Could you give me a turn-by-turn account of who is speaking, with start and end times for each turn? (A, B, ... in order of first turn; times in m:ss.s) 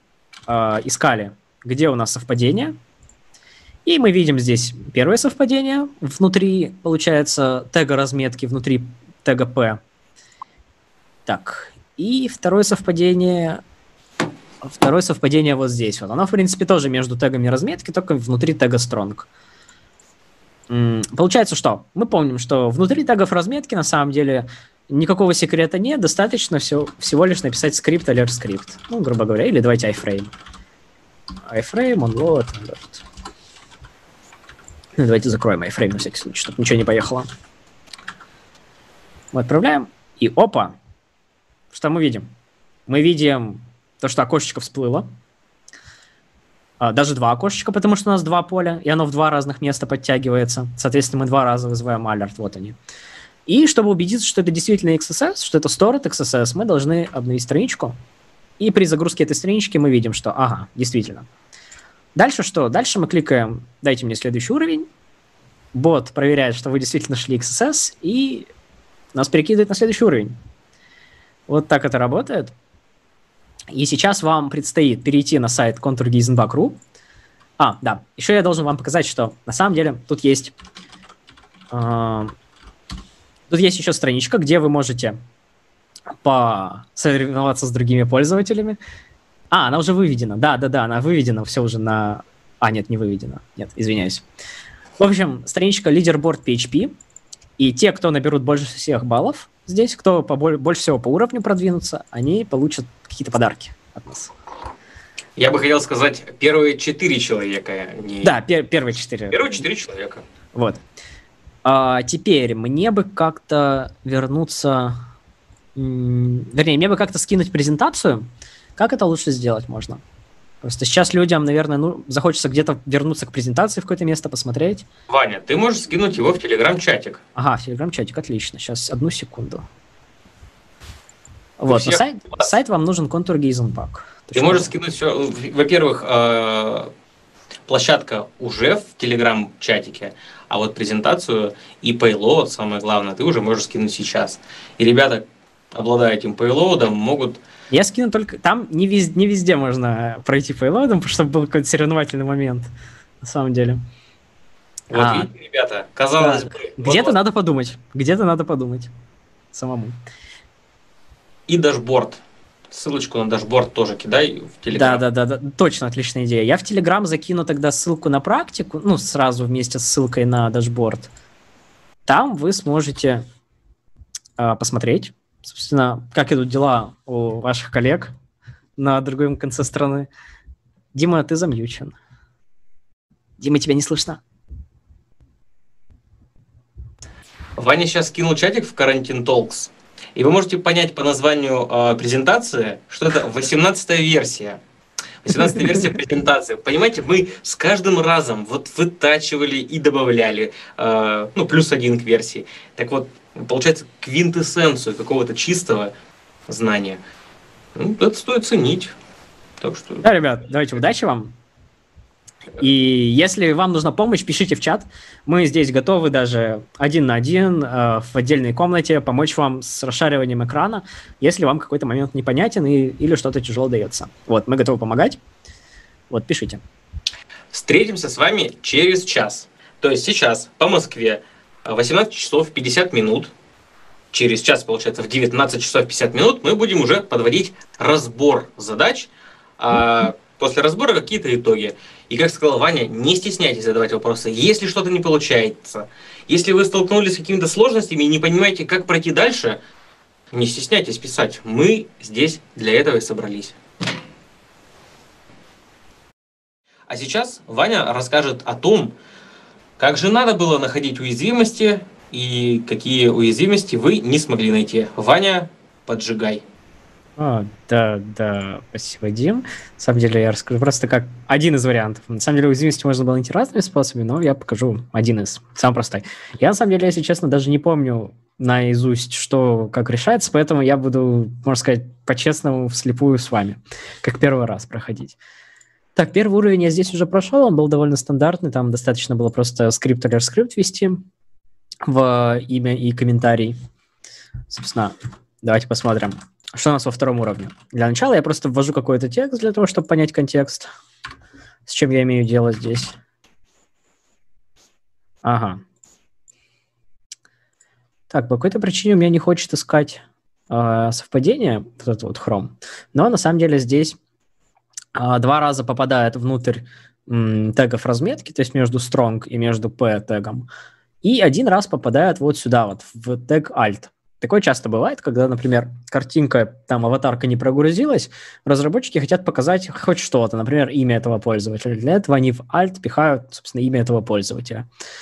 0:00.5-0:02.8 A
0:03.8-0:09.8 A
0:11.2-0:13.6 A
0:14.6-0:19.3 A
0:20.7-0:30.3 A
0:31.5-0:33.0 A
0:35.0-0:37.2 A
0:39.3-0:40.7 A
0:41.7-0:42.3 A
0:42.9-0:45.1 A
0:46.8-0:52.8 A
0:53.4-0:58.0 A
0:58.6-1:01.3 A
1:02.2-1:04.9 A
1:05.7-1:08.5 A
1:09.1-1:10.4 A
1:11.5-1:12.5 A
1:13.7-1:16.8 A
1:17.6-1:20.5 A
1:21.7-1:22.3 A
1:23.5-1:25.2 A
1:26.2-1:28.8 A
1:29.5-1:34.2 A
1:35.0-1:36.9 A
1:37.6-1:44.3 A
1:45.4-1:48.4 B
1:48.2-1:49.6 A
1:49.3-1:50.2 B
1:50.5-1:50.8 A
1:51.6-1:55.0 A
1:55.8-2:00.0 A
2:00.6-2:04.8 A
2:05.1-2:07.2 B
2:07.4-2:09.6 A
2:11.6-2:14.7 A
2:11.7-2:12.0 B
2:14.3-2:16.9 B
2:17.7-2:27.4 B
2:27.7-2:32.7 A
2:33.2-2:33.8 A
2:34.9-2:37.1 B
2:34.9-2:35.3 A
2:36.2-2:38.9 A
2:39.5-2:40.0 A
2:41.5-2:45.0 B
2:44.7-2:51.1 A
2:52.0-2:53.2 A
2:54.4-2:58.1 A
2:58.8-3:00.1 A
3:00.9-3:02.0 A
3:03.4-3:04.2 A
3:07.6-3:14.6 B
3:15.2-3:25.9 B
3:26.5-3:27.0 B
3:27.7-3:28.9 B
3:29.6-3:30.0 B
3:30.0-3:31.4 A
3:32.6-3:45.2 A
3:46.1-3:46.6 A
3:47.5-3:53.3 B
3:54.1-4:09.6 B
4:10.3-4:13.6 B
4:16.9-4:18.9 B
4:19.8-4:26.4 B
4:27.2-4:45.2 A
4:46.0-4:51.0 A
4:51.8-4:53.6 A
4:54.5-5:00.7 A
5:01.6-5:03.0 A
5:05.2-5:05.6 A
5:08.1-5:14.0 A
5:14.9-5:20.5 A
5:21.0-5:34.6 A